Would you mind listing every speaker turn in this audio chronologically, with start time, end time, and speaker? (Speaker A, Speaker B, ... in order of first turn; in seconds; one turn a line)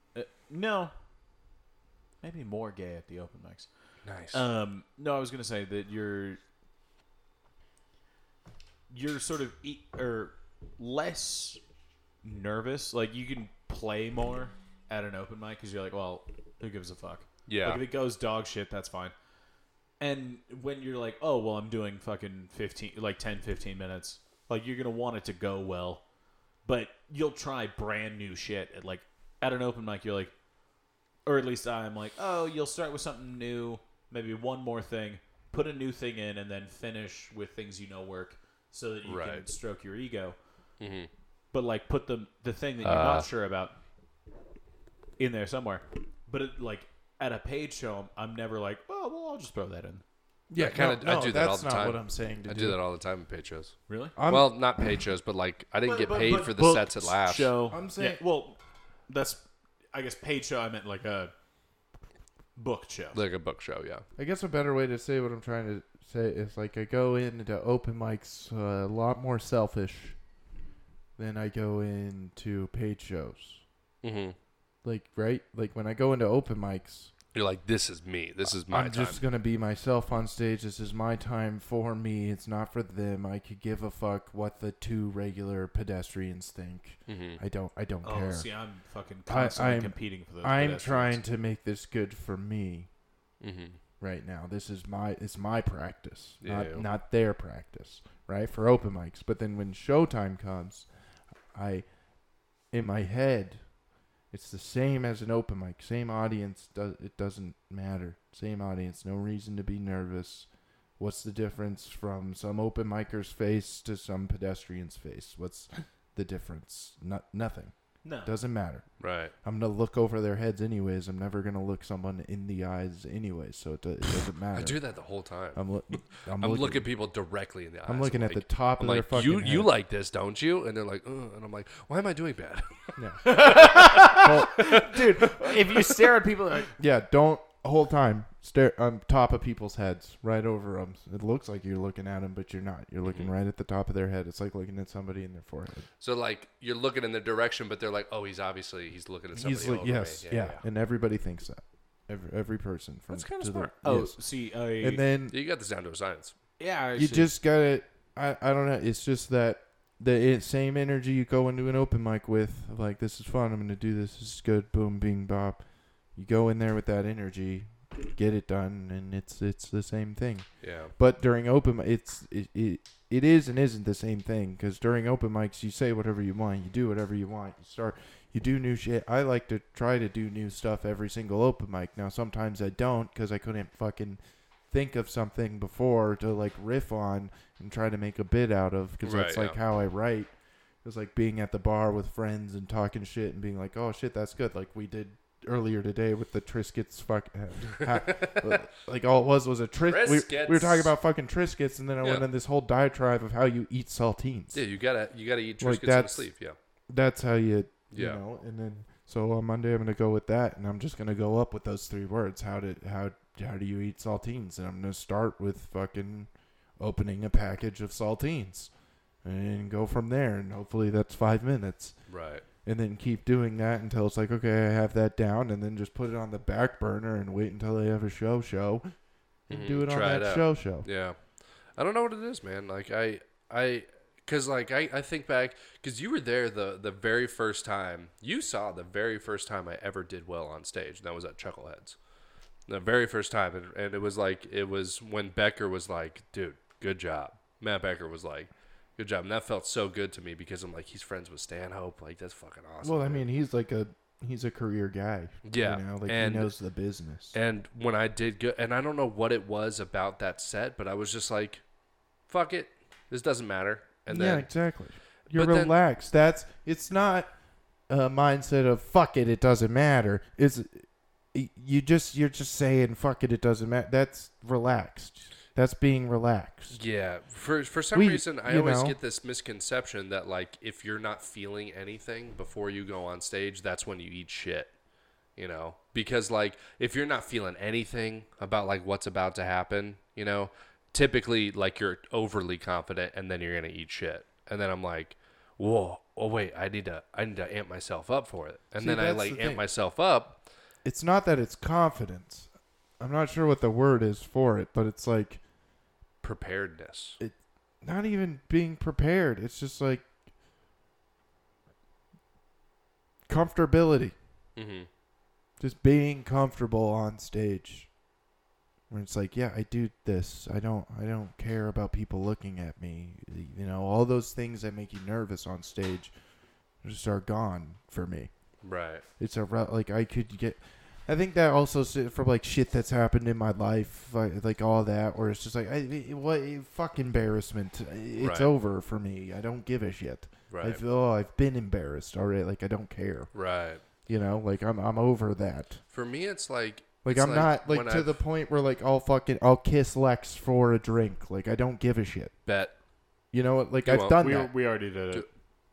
Speaker A: 0.1-0.9
Speaker A: 2.2-3.7
Speaker B: 4.0-4.5
Speaker A: 4.3-6.4
Speaker A: 8.9-11.6
Speaker A: 12.2-19.1
Speaker B: 17.5-17.8
Speaker A: 20.0-26.0
Speaker A: 26.6-30.3
Speaker A: 31.3-40.4
Speaker B: 39.0-39.4
Speaker B: 40.8-41.1
Speaker A: 41.5-43.8
Speaker B: 42.8-43.3
Speaker A: 45.2-50.0
Speaker C: 50.5-52.8
Speaker B: 50.6-57.5
Speaker A: 53.9-54.1
Speaker C: 54.2-54.6
Speaker A: 55.8-61.3
Speaker C: 57.7-58.2
Speaker A: 62.6-63.2
Speaker B: 63.1-64.0
Speaker C: 64.2-70.2
Speaker C: 71.2-73.6
Speaker B: 74.0-74.3
Speaker C: 74.8-77.1
Speaker B: 77.3-79.2
Speaker C: 78.7-88.5
Speaker B: 87.1-87.4
Speaker A: 88.0-91.2
Speaker C: 89.3-92.9
Speaker B: 93.4-93.8
Speaker C: 94.0-100.9
Speaker B: 96.4-96.8
Speaker C: 101.5-101.9
Speaker C: 102.7-103.6
Speaker C: 104.3-110.5
Speaker C: 111.0-118.9
Speaker A: 118.0-118.3
Speaker B: 119.0-119.3
Speaker C: 119.4-124.8
Speaker B: 124.5-125.6
Speaker C: 125.5-126.9
Speaker B: 126.2-135.5
Speaker C: 127.9-129.7
Speaker C: 133.0-134.8
Speaker A: 133.2-136.7
Speaker C: 136.8-145.9
Speaker B: 146.0-150.5
Speaker C: 149.3-154.2
Speaker B: 153.1-153.7
Speaker A: 153.8-155.0
Speaker C: 154.8-155.4
Speaker B: 155.3-156.3
Speaker A: 156.6-157.3
Speaker C: 157.0-165.6
Speaker C: 166.2-184.2
Speaker B: 170.6-170.9
Speaker C: 184.7-190.3
Speaker B: 189.0-189.6
Speaker C: 190.8-204.6
Speaker B: 198.1-198.6
Speaker B: 199.9-200.9
Speaker B: 204.5-206.6
Speaker C: 205.6-206.3
Speaker C: 206.9-216.3
Speaker B: 207.9-208.2
Speaker C: 216.8-218.7
Speaker C: 219.2-222.0
Speaker B: 222.1-222.4
Speaker C: 222.7-228.8
Speaker C: 229.5-230.9
Speaker B: 229.5-231.2
Speaker B: 231.8-242.0
Speaker B: 242.7-253.2
Speaker C: 252.8-257.4
Speaker B: 255.5-256.5
Speaker B: 257.3-261.6
Speaker B: 262.3-264.5
Speaker C: 264.1-267.3
Speaker B: 265.3-265.7
Speaker C: 267.9-276.8
Speaker B: 276.7-284.7
Speaker C: 277.9-279.0
Speaker B: 285.4-300.4
Speaker C: 298.8-299.6
Speaker C: 300.8-302.5
Speaker C: 303.0-305.4
Speaker B: 306.2-307.2
Speaker C: 307.2-310.1
Speaker C: 313.3-314.1
Speaker B: 314.6-314.9
Speaker C: 315.6-317.9
Speaker C: 318.9-326.1
Speaker C: 326.8-328.3
Speaker B: 328.6-329.0
Speaker C: 329.2-343.3
Speaker B: 338.2-338.5
Speaker B: 340.5-340.8
Speaker B: 343.3-343.8
Speaker C: 344.1-345.8
Speaker B: 345.9-348.1
Speaker C: 347.0-352.3
Speaker B: 352.5-352.7
Speaker C: 353.3-354.5
Speaker B: 353.9-354.3
Speaker A: 354.2-355.3